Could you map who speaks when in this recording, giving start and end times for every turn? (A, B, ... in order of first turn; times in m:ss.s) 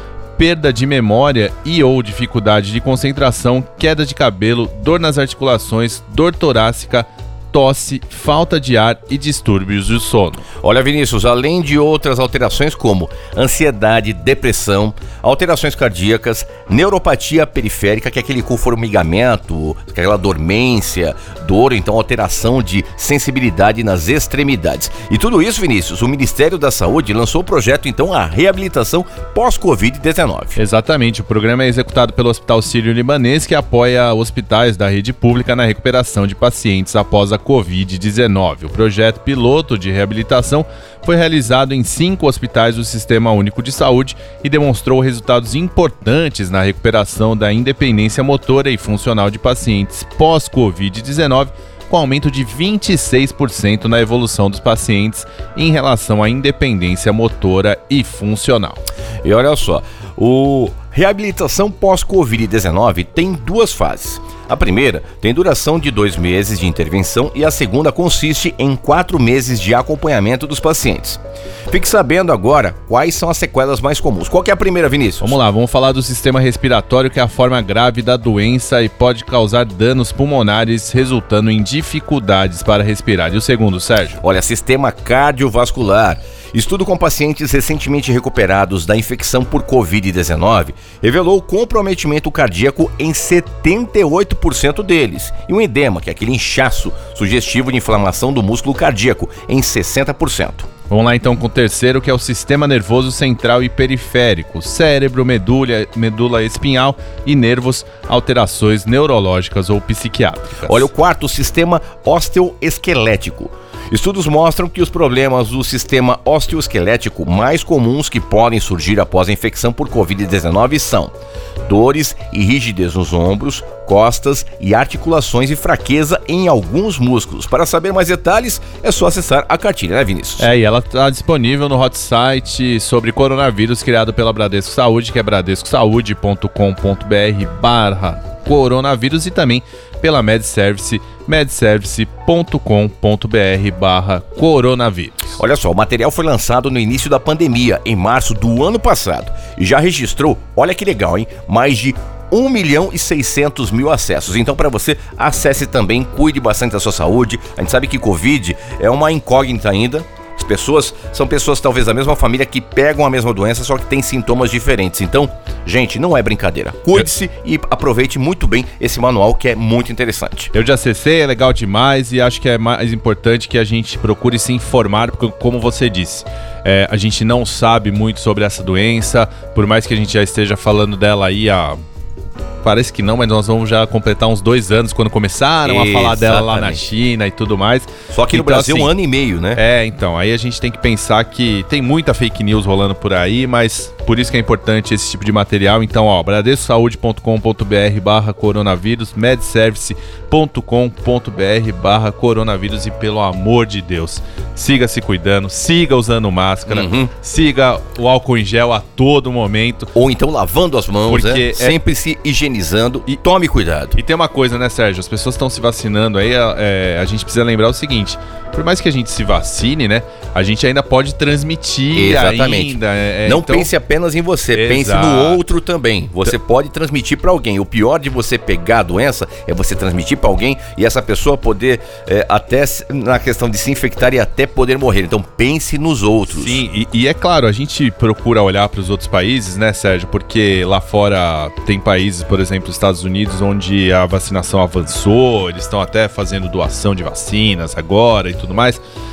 0:00.4-0:10.4 A
0:10.6-0:30.6 B
0:30.6-0:58.8 A
0:59.2-1:15.4 B
1:15.2-1:24.2 A
1:24.2-1:40.7 B
1:40.9-1:50.9 A
1:50.7-2:01.1 B
2:01.6-2:10.5 B
2:10.4-2:25.3 A
2:25.4-2:50.5 B
2:50.5-3:01.8 A
3:02.6-3:08.9 A
3:05.6-3:06.8 B
3:08.1-3:09.6 B
3:09.6-3:29.9 A
3:26.7-3:27.1 B
3:30.0-3:34.0 B
3:31.1-3:31.8 A
3:34.0-3:43.7 A
3:42.0-3:56.6 B
3:44.5-3:45.4 A
3:56.3-4:08.8 A